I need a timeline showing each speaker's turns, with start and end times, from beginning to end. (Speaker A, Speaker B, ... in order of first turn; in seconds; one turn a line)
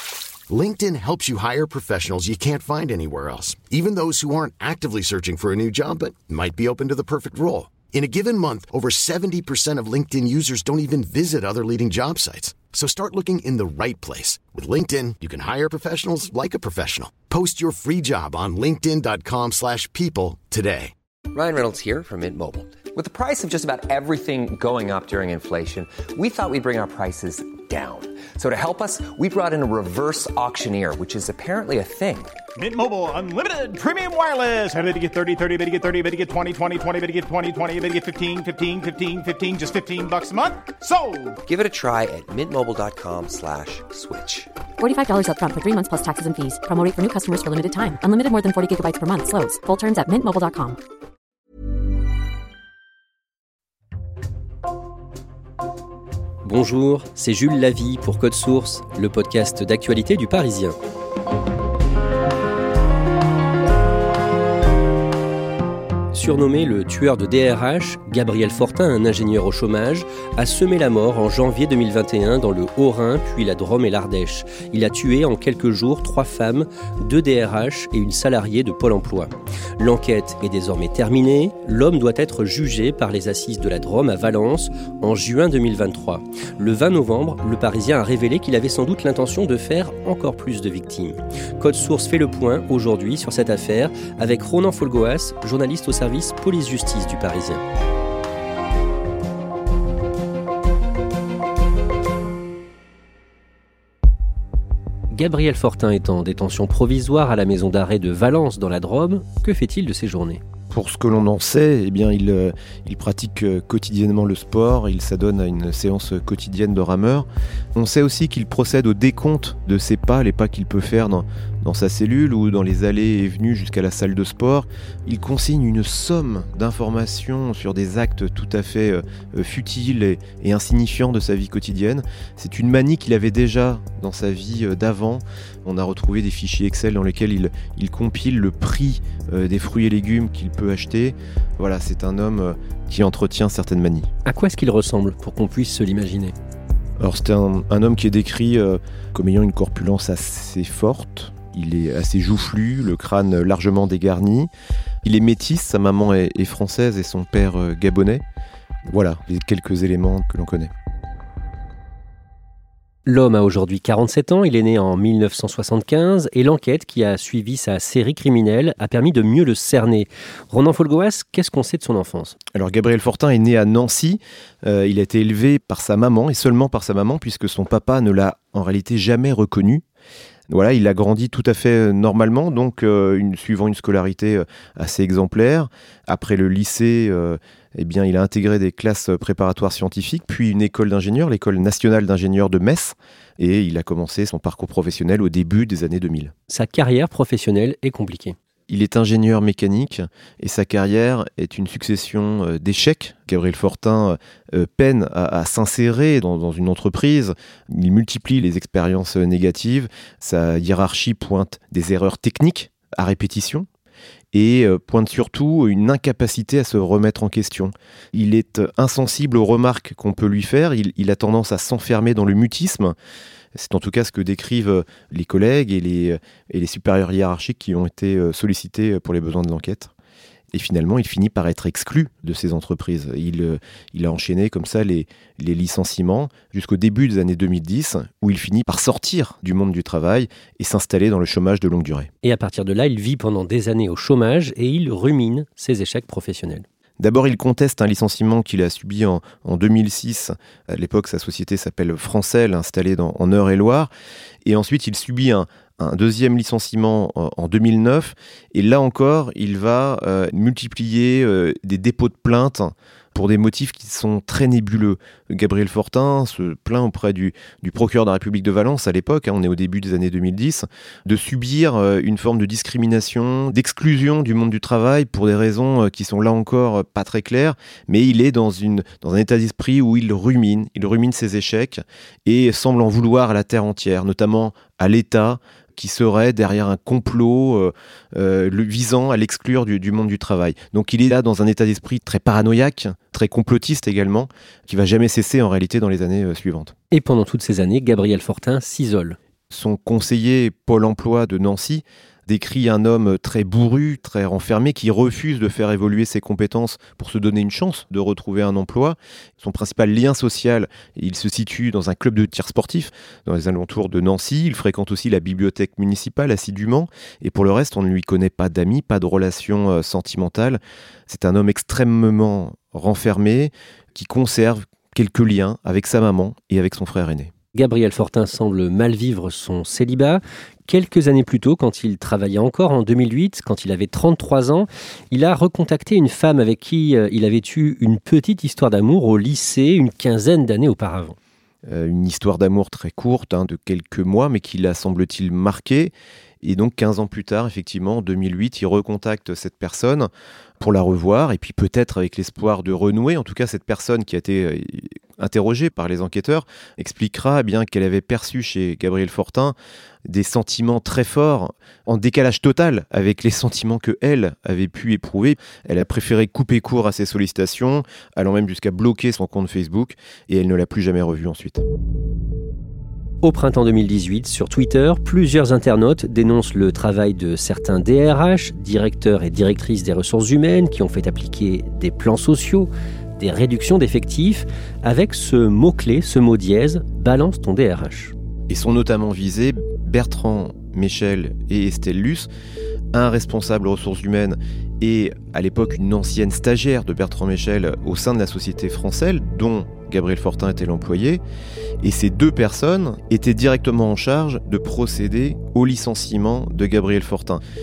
Speaker A: 0.5-20.9
Speaker B: 21.3-32.3
Speaker C: 32.6-41.3
Speaker B: 41.5-44.5
Speaker D: 44.8-50.8
Speaker E: 56.4-60.8
Speaker E: 66.1-97.6
Speaker E: 105.1-110.4
Speaker F: 110.7-144.1
Speaker E: 144.3-146.3
Speaker F: 147.0-154.5
Speaker F: 155.0-158.2
Speaker F: 158.9-160.7
Speaker E: 163.1-172.4
Speaker F: 172.5-179.8
Speaker F: 180.5-196.3
Speaker E: 196.5-198.4
Speaker F: 198.7-213.7
Speaker F: 214.3-222.9
Speaker F: 223.6-229.9
Speaker F: 230.5-242.1
Speaker E: 242.2-246.7
Speaker F: 247.0-253.9
Speaker F: 254.4-296.7
Speaker E: 296.9-299.2
Speaker F: 299.5-327.3
Speaker E: 327.5-341.2
Speaker F: 341.7-359.6
Speaker F: 360.1-371.6
Speaker E: 373.2-388.1
Speaker F: 388.5-392.3
Speaker F: 392.9-401.2
Speaker F: 401.8-407.4